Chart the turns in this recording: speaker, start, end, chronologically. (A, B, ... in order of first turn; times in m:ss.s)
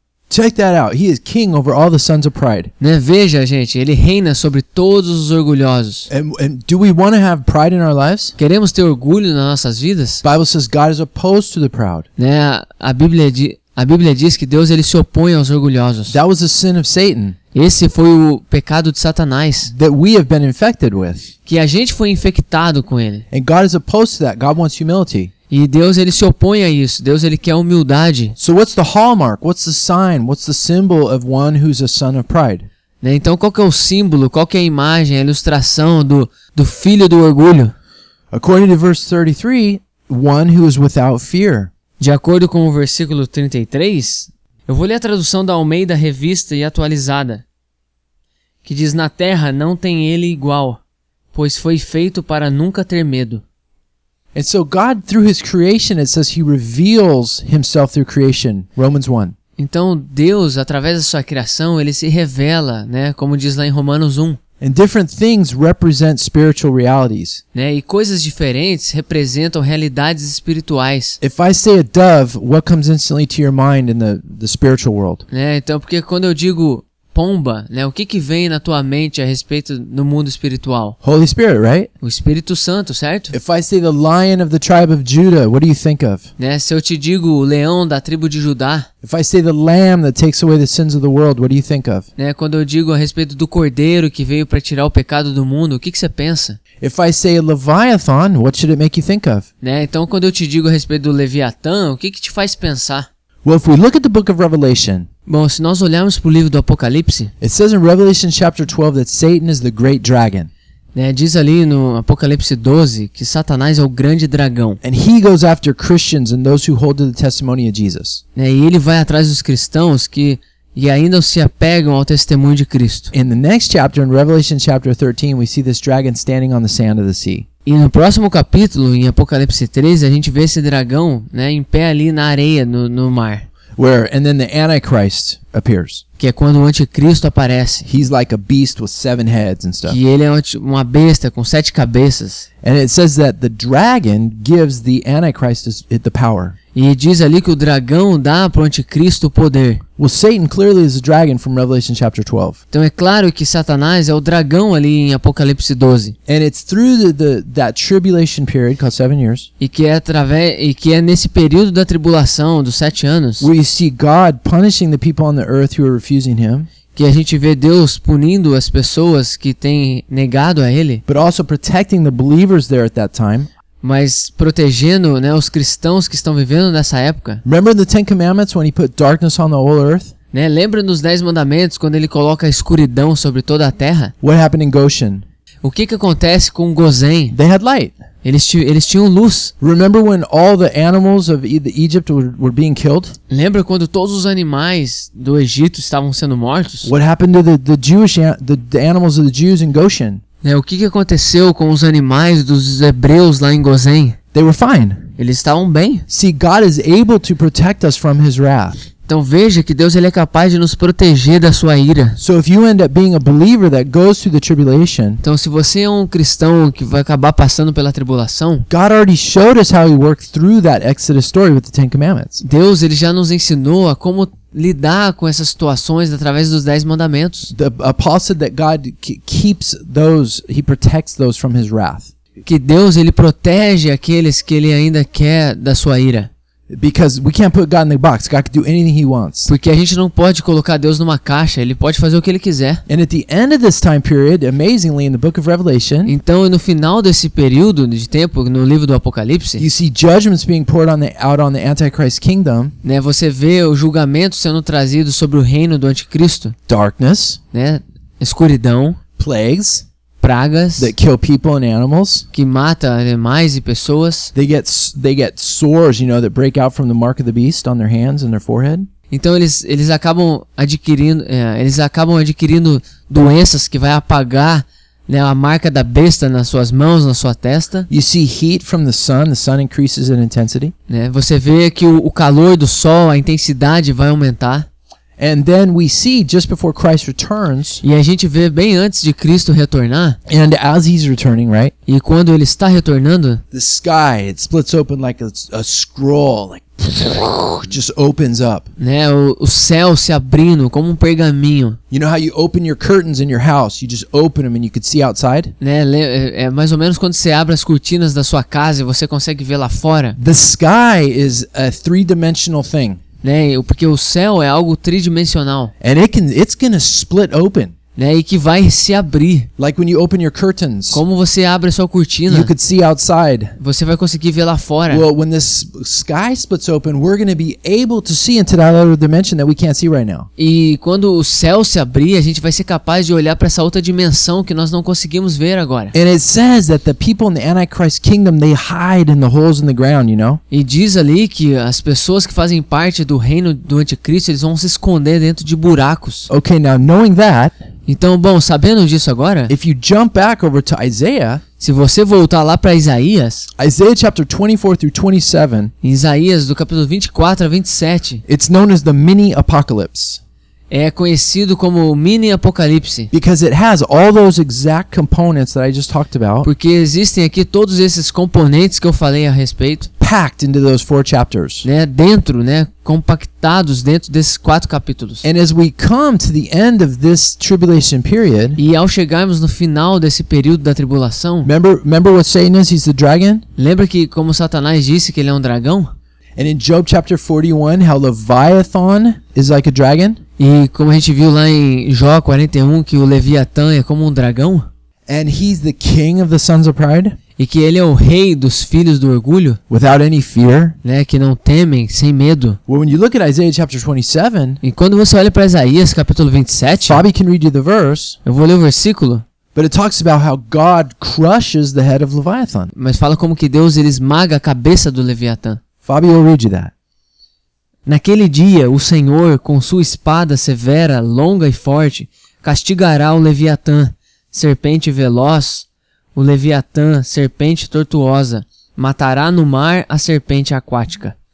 0:00.3-0:02.7 A
0:02.8-0:06.1 B
0:06.1-0:08.3 A
0:08.4-0:10.2 B
0:10.2-0:12.0 A
0:12.2-0:16.2 B
0:16.1-0:17.4 A
0:17.5-0:19.7 B
0:19.7-0:21.3 A
0:21.4-0:23.2 B
0:23.3-0:25.3 A
0:25.5-0:28.3 B
0:28.4-0:32.7 A
0:33.0-0:37.7 B
0:38.3-0:41.7 A
0:42.0-0:47.4 B
0:48.6-0:50.8 B
0:51.3-0:53.4 B
0:54.3-0:59.3 A
0:59.6-1:04.4 B
1:04.6-1:07.4 A
1:07.5-1:11.2 B
1:11.2-1:15.2 A
1:15.3-1:21.0 B
1:21.0-1:21.9 A
1:22.0-1:23.3 B
1:23.3-1:26.3 A
1:26.4-1:28.9 B
1:29.0-1:32.1 A
1:32.2-1:36.6 B
1:36.8-1:39.5 A
1:39.6-1:43.1 B
1:43.4-1:45.1 A
1:45.3-1:47.3 B
1:47.4-1:50.5 A
1:50.9-1:54.8 B
1:54.8-1:58.2 A
1:58.3-2:03.1 B
2:03.1-2:07.4 A
2:07.6-2:13.5 B
2:13.8-2:16.0 A
2:16.2-2:17.8 B
2:17.8-2:20.0 A
2:19.9-2:22.4 B
2:22.6-2:26.6 A
2:26.7-2:29.8 B
2:30.0-2:32.6 A
2:32.7-2:36.1 B
2:36.3-2:39.5 A
2:39.6-2:43.5 B
2:43.4-2:46.7 A
2:46.9-2:51.0 B
2:51.0-2:53.5 A
2:53.8-2:57.4 B
2:57.4-3:00.1 A
3:00.3-3:04.1 B
3:04.2-3:05.2 A
3:05.6-3:07.4 B
3:07.3-3:07.9 A
3:08.2-3:09.5 B
3:09.6-3:13.2 A
3:13.3-3:16.9 B
3:16.8-3:20.2 A
3:20.4-3:24.2 B
3:24.3-3:25.1 A
3:25.2-3:26.0 B
3:26.1-3:28.8 A
3:29.1-3:32.2 B
3:32.2-3:35.2 A
3:35.2-3:38.7 B
3:38.7-3:42.4 A
3:42.4-3:47.5 B
3:47.5-3:52.1 A
3:52.4-3:56.3 B
3:56.7-3:59.5 A
3:59.5-4:02.8 B
4:02.9-4:06.1 A
4:06.0-4:09.6 B
4:09.6-4:12.7 A
4:12.8-4:16.5 B
4:16.7-4:17.4 A
4:17.5-4:19.0 B
4:19.2-4:19.8 A
4:20.2-4:20.9 B
4:20.8-4:22.2 A
4:22.3-4:24.3 B
4:24.3-4:28.9 A
4:29.1-4:37.9 B
4:37.9-4:40.7 A
4:40.9-4:44.7 B
4:45.2-4:47.8 A
4:47.8-4:50.2 B
4:50.3-4:51.7 A
4:51.9-4:53.4 B
4:53.5-4:58.7 A
4:58.8-5:01.8 B
5:01.9-5:05.5 A
5:05.6-5:10.2 B
5:10.2-5:13.0 A
5:13.2-5:15.7 B
5:15.8-5:17.7 A
5:18.0-5:19.5 B
5:19.6-5:21.0 A
5:20.9-5:22.5 B
5:22.3-5:23.6 A
5:23.6-5:25.0 B
5:24.9-5:30.3 A
5:30.4-5:35.9 B
5:35.9-5:40.4 A
5:40.5-5:46.3 B
5:46.3-5:47.5 A
5:47.8-5:49.5 B
5:49.5-5:51.4 A
5:51.6-5:53.5 B
5:53.6-5:55.7 A
5:55.8-5:58.2 B
5:58.2-6:00.2 A
6:00.7-6:03.1 B
6:03.1-6:06.5 A
6:06.4-6:09.9 B
6:10.0-6:11.6 A
6:11.6-6:15.2 B
6:15.2-6:18.6 A
6:18.6-6:21.5 B
6:21.4-6:23.4 A
6:23.6-6:25.9 B
6:26.4-6:30.2 A
6:30.4-6:34.7 B
6:35.1-6:37.2 A
6:37.4-6:39.6 B
6:39.7-6:40.8 A
6:40.8-6:42.6 B
6:42.7-6:44.6 A
6:44.6-6:47.0 B
6:46.9-6:48.2 A
6:48.2-6:49.2 B
6:49.5-6:52.7 A
6:52.7-6:55.6 B
6:55.8-6:56.7 A
6:57.8-7:11.1 B